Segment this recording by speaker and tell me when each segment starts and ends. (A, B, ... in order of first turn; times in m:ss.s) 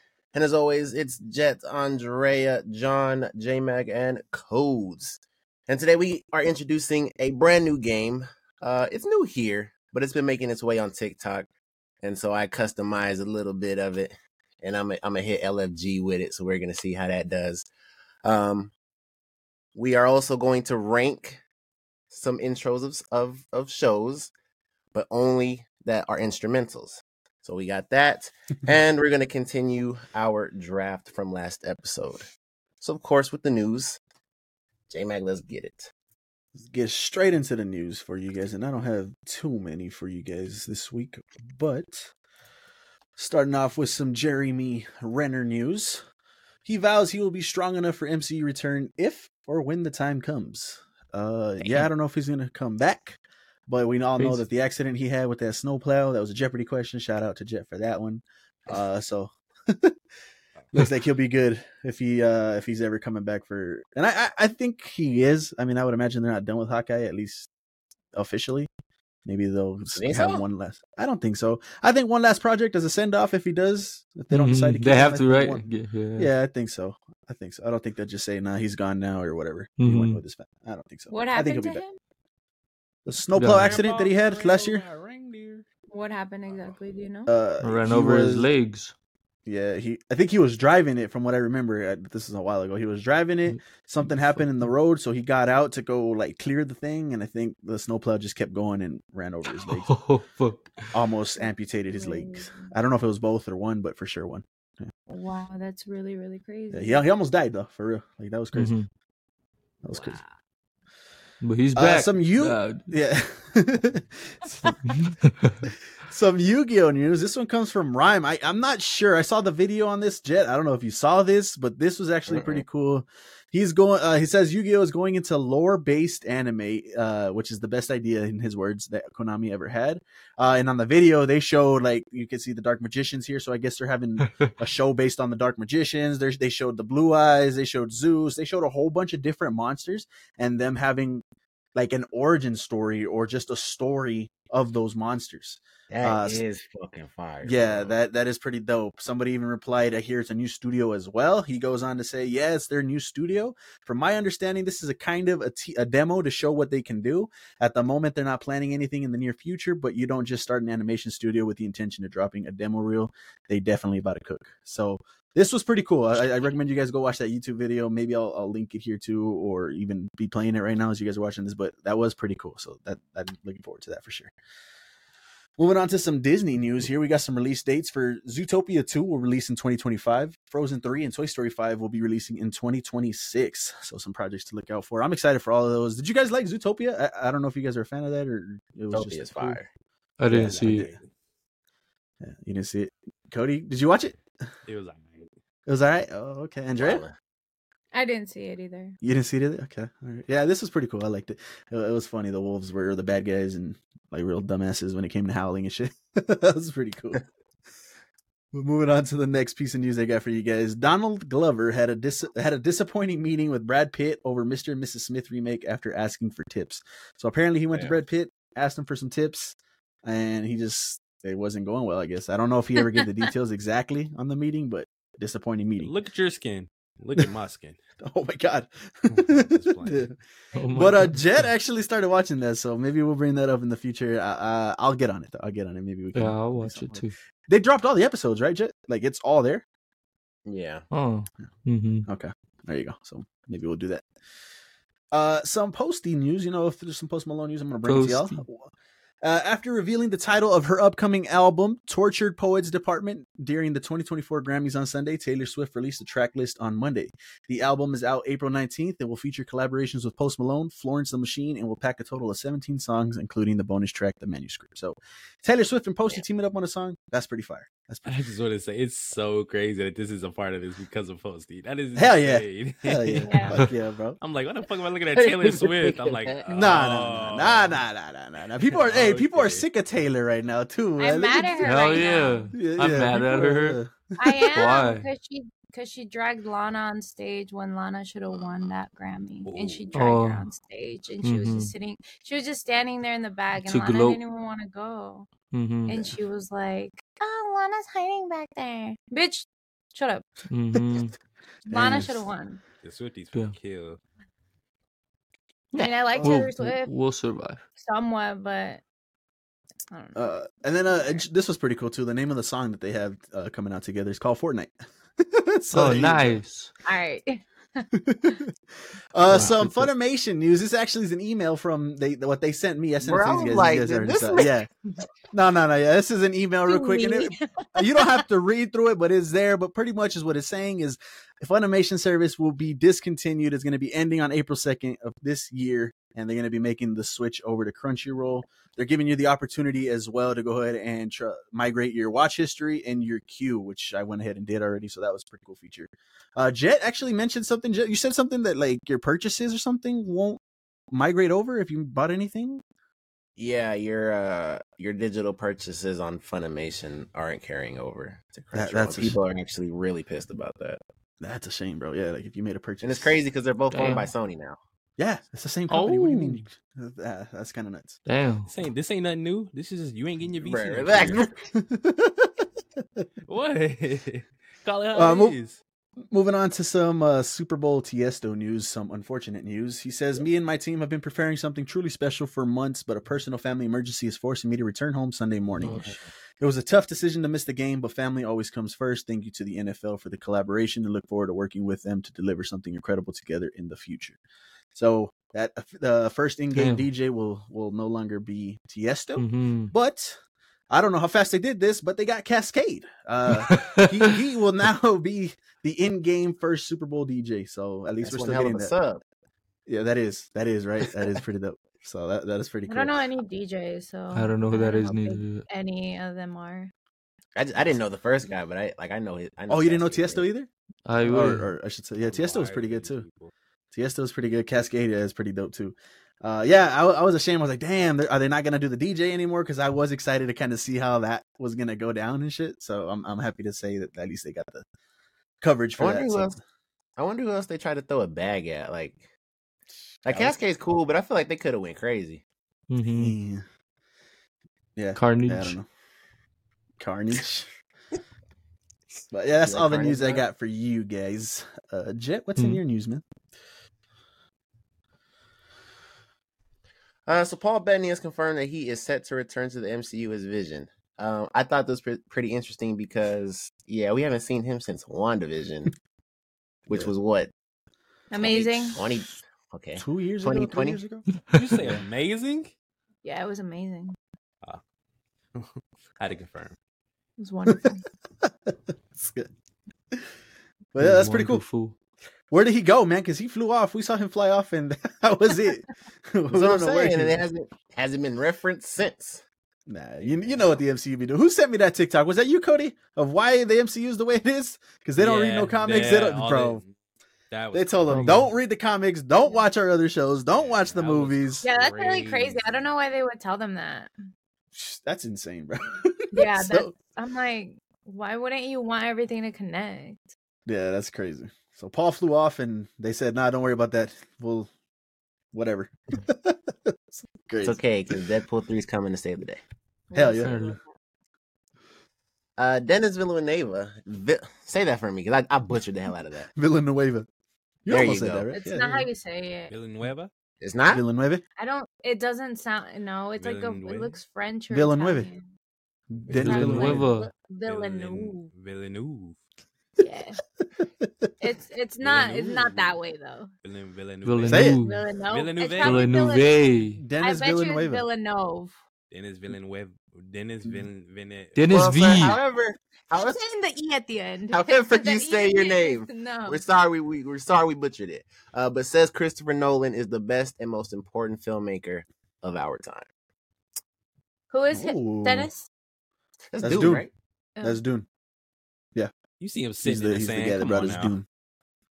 0:00.3-0:11.5 A
0:12.0-0:17.7 A
0:18.2-0:18.7 A
0:19.8-0:21.4 A
0:22.1-0:24.3 A
0:24.9-0:32.3 A
0:32.8-0:34.0 A
0:34.9-0:35.9 A
0:36.6-0:42.1 B
0:43.2-0:46.0 B
0:46.6-1:00.0 B
0:54.2-0:54.4 C
1:00.7-1:07.5 B
1:08.2-1:08.7 B
1:09.2-1:15.7 B
1:10.0-1:10.4 A
1:14.3-1:16.3 C
1:16.2-1:21.8 B
1:19.8-1:20.2 C
1:21.1-1:22.0 D
1:23.1-1:24.8 B
1:23.4-1:23.8 C
1:23.6-1:25.7 E
1:25.9-1:27.3 D
1:26.5-1:26.8 E
1:27.3-1:28.5 B
1:27.6-1:28.9 C
1:29.5-1:40.0 B
1:33.5-1:34.7 C
1:39.5-1:40.9 C
1:40.9-1:44.9 B
1:41.4-1:42.7 D
1:45.1-1:47.0 D
1:46.7-1:48.7 B
1:48.5-1:48.9 C
1:49.8-1:50.2 B
1:49.9-1:50.3 D
1:51.4-1:52.8 C
1:51.8-1:54.8 B
1:54.9-1:55.6 C
1:56.1-2:21.2 B
2:02.3-2:02.6 A
2:21.8-2:26.4 B
2:25.9-2:28.0 A
2:27.4-2:54.3 B
2:55.6-3:09.6 B
3:08.9-3:09.7 A
3:10.2-3:10.9 C
3:10.3-3:11.0 B
3:10.5-3:11.1 E
3:12.2-3:14.2 B
3:14.7-3:15.3 E
3:15.7-3:17.0 B
3:16.8-3:17.1 A
3:17.9-3:19.0 D
3:19.0-3:27.2 B
3:28.5-3:45.9 B
3:45.8-3:47.8 E
3:48.0-3:50.2 B
3:49.1-3:50.1 E
3:50.6-3:51.2 C
3:50.7-3:59.6 B
3:56.1-3:57.2 C
4:00.5-4:00.8 A
4:00.9-4:02.1 C
4:02.1-4:04.1 B
4:05.1-4:08.7 B
4:07.9-4:08.4 C
4:09.2-4:28.3 B
4:28.0-4:33.6 E
4:32.0-4:34.2 B
4:33.3-4:33.5 D
4:34.2-4:37.8 E
4:35.1-4:37.1 A
4:36.5-4:44.7 B
4:38.7-4:39.6 E
4:41.0-4:42.6 D
4:41.6-4:43.8 C
4:44.2-4:55.3 D
4:44.5-4:45.1 C
4:49.4-4:50.0 E
4:49.9-4:50.5 C
4:51.2-4:51.7 C
4:53.6-4:54.2 C
4:55.5-4:56.0 C
4:55.9-5:00.3 D
4:55.9-4:56.2 B
5:00.5-5:01.1 C
5:01.7-5:02.3 B
5:01.7-5:02.6 D
5:02.8-5:04.0 E
5:05.7-5:07.6 C
5:05.8-5:06.9 D
5:06.2-5:06.4 B
5:07.8-5:08.8 D
5:09.9-5:10.4 D
5:10.2-5:16.4 B
5:10.9-5:11.2 D
5:15.7-5:16.7 C
5:16.8-5:18.4 D
5:17.9-5:18.5 B
5:19.1-5:24.7 B
5:19.3-5:19.9 C
5:23.0-5:24.5 A
5:25.3-5:50.4 B
5:26.7-5:28.2 D
5:50.9-5:52.6 B
5:53.4-6:00.8 A
5:58.5-5:59.2 B
6:01.2-6:03.2 B
6:02.8-6:04.6 A
6:03.7-6:04.1 C
6:05.0-6:08.0 B
6:05.7-6:06.4 C
6:08.1-6:08.5 C
6:08.5-6:11.3 E
6:10.4-6:11.3 A
6:11.4-6:12.5 B
6:13.3-6:15.6 E
6:14.9-6:15.4 B
6:16.1-6:34.2 B
6:25.6-6:25.9 C
6:34.8-6:40.2 B
6:36.5-6:36.8 C
6:39.2-6:39.7 C
6:40.7-6:48.7 B
6:43.3-6:44.2 C
6:48.0-6:49.0 A
6:49.7-6:52.9 B
6:52.7-6:56.7 D
6:54.1-6:55.5 C
6:57.4-7:00.3 A
6:59.5-7:00.5 B
7:00.9-7:01.5 C
7:01.0-7:03.0 B
7:02.0-7:03.3 E
7:03.7-7:14.7 B
7:15.4-7:16.4 B
7:15.8-7:16.4 A
7:17.0-7:19.0 A
7:20.0-7:20.4 B
7:20.0-7:22.2 A
7:22.7-7:23.2 C
7:22.8-7:23.4 B
7:24.8-7:25.7 B
7:25.0-7:25.6 C
7:26.8-7:27.5 B
7:29.1-7:33.0 B
7:29.4-7:30.2 A
7:32.4-7:32.6 C
7:37.1-7:45.7 A
7:46.7-7:47.3 A
7:48.1-7:48.8 D
7:48.1-7:50.8 A
7:49.8-7:51.1 B
7:51.2-7:51.6 C
7:51.3-7:52.5 E
7:53.0-7:54.0 D
7:55.4-7:56.6 E
7:57.2-7:57.8 D
7:58.2-7:59.3 B
8:00.7-8:01.4 B
8:00.8-8:01.8 C
8:02.3-8:07.2 B
8:06.3-8:09.2 A
8:09.7-8:16.6 B
8:10.0-8:10.6 E
8:15.0-8:16.7 E
8:17.3-8:18.3 E
8:17.5-8:21.4 B
8:17.9-8:18.3 C
8:20.3-8:22.7 E
8:21.4-8:23.9 D
8:24.5-8:26.8 B
8:26.1-8:30.1 D
8:30.5-8:34.5 B
8:35.3-8:38.0 B
8:37.4-8:39.4 A
8:39.9-8:40.7 D
8:39.9-8:40.3 B
8:40.2-8:40.6 C
8:42.4-8:46.3 A
8:46.4-8:47.1 B
8:47.6-8:48.9 B
8:47.7-8:48.3 A
8:48.3-8:49.5 D
8:49.5-8:50.1 E
8:50.4-8:50.8 A
8:50.7-8:51.2 B
8:51.4-8:55.2 D
8:53.2-8:54.0 E
8:54.5-8:55.1 B
8:56.0-8:56.9 B
8:56.1-8:56.4 E
8:56.1-8:57.1 C
8:56.2-8:58.3 D
8:57.5-8:59.2 E
8:59.8-9:00.2 D
9:00.6-9:01.1 B
9:01.2-9:03.3 D
9:01.8-9:02.8 E
9:03.4-9:04.5 E
9:04.0-9:04.8 C
9:04.3-9:04.6 B
9:04.4-9:08.6 D
9:05.1-9:05.9 E
9:05.6-9:06.8 C
9:06.8-9:07.8 B
9:08.9-9:11.4 E
9:11.4-9:12.2 C
9:11.5-9:13.2 A
9:12.9-9:16.4 D
9:14.3-9:22.9 A
9:24.3-9:25.5 D
9:24.5-9:25.3 B
9:26.3-9:26.9 A
9:26.4-9:26.9 B
9:27.4-9:27.9 B
9:29.2-9:31.0 E
9:29.6-9:31.1 B